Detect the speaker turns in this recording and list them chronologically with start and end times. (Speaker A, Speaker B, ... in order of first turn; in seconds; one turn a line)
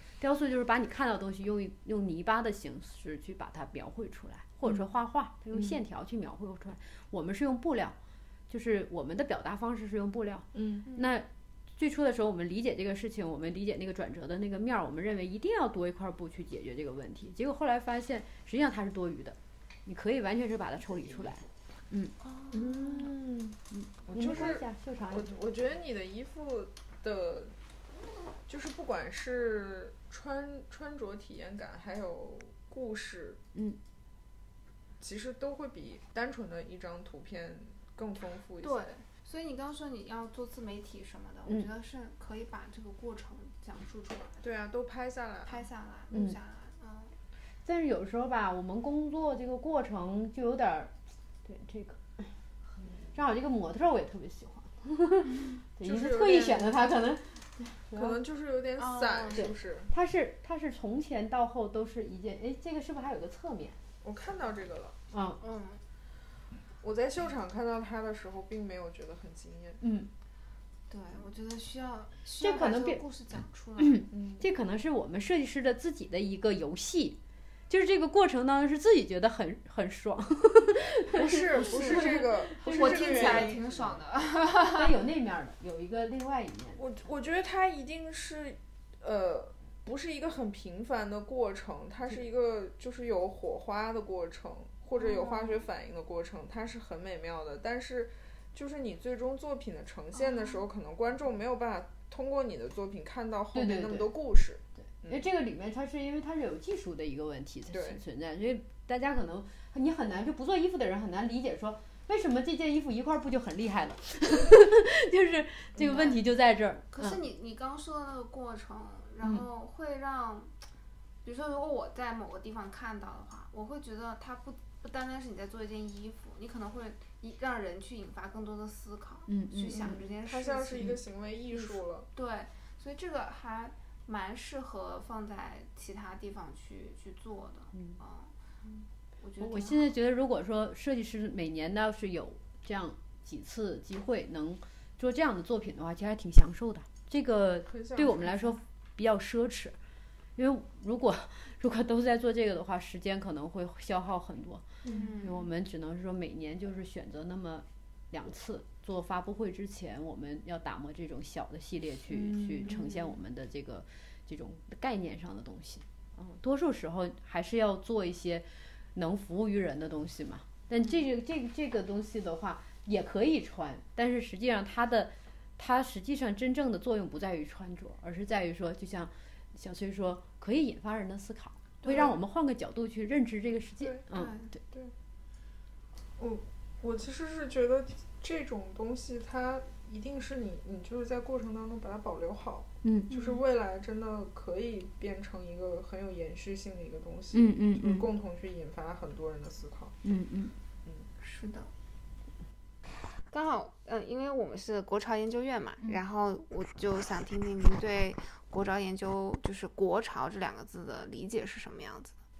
Speaker A: 0.2-8.0
Speaker A: 8.5-22.1
Speaker B: 10.5-10.9
Speaker C: 22.2-23.1
Speaker B: 22.5-27.5
Speaker A: 23.7-25.4
Speaker B: 28.4-33.4
Speaker A: 33.5-33.8
Speaker B: 35.0-38.9
Speaker C: 38.6-44.5
Speaker B: 44.4-45.6
Speaker C: 45.5-47.1
Speaker A: 46.1-46.4
Speaker A: 47.6-50.9
Speaker A: 51.4-52.3
Speaker A: 53.1-58.1
Speaker B: 55.8-56.8
Speaker B: 57.9-59.9
Speaker C: 58.8-59.5
Speaker A: 59.3-63.8
Speaker B: 64.0-64.9
Speaker A: 65.1-65.4
Speaker C: 65.4-65.8
Speaker B: 66.8-69.8
Speaker A: 69.8-70.1
Speaker C: 70.9-74.0
Speaker A: 72.4-73.0
Speaker A: 73.8-77.2
Speaker B: 74.1-74.5
Speaker A: 77.7-83.6
Speaker B: 81.1-84.0
Speaker C: 81.6-84.9
Speaker A: 84.6-86.8
Speaker B: 86.8-105.3
Speaker C: 95.0-95.7
Speaker C: 100.2-100.6
Speaker A: 103.5-104.1
Speaker A: 105.0-117.2
Speaker B: 107.7-108.0
Speaker C: 115.8-116.2
Speaker B: 115.8-116.0
Speaker C: 116.9-120.5
Speaker C: 121.2-130.9
Speaker A: 129.3-130.0
Speaker B: 129.7-132.1
Speaker C: 131.5-138.3
Speaker C: 139.2-139.9
Speaker A: 139.4-149.8
Speaker B: 147.7-148.5
Speaker A: 150.3-184.5
Speaker C: 154.8-155.5
Speaker B: 162.1-162.9
Speaker C: 181.8-182.1
Speaker B: 181.9-182.2
Speaker B: 183.8-184.1
Speaker C: 184.1-184.5
Speaker B: 186.2-200.0
Speaker A: 192.8-193.1
Speaker C: 193.1-193.4
Speaker A: 197.3-198.1
Speaker A: 200.0-200.6
Speaker C: 201.2-201.7
Speaker C: 202.9-212.1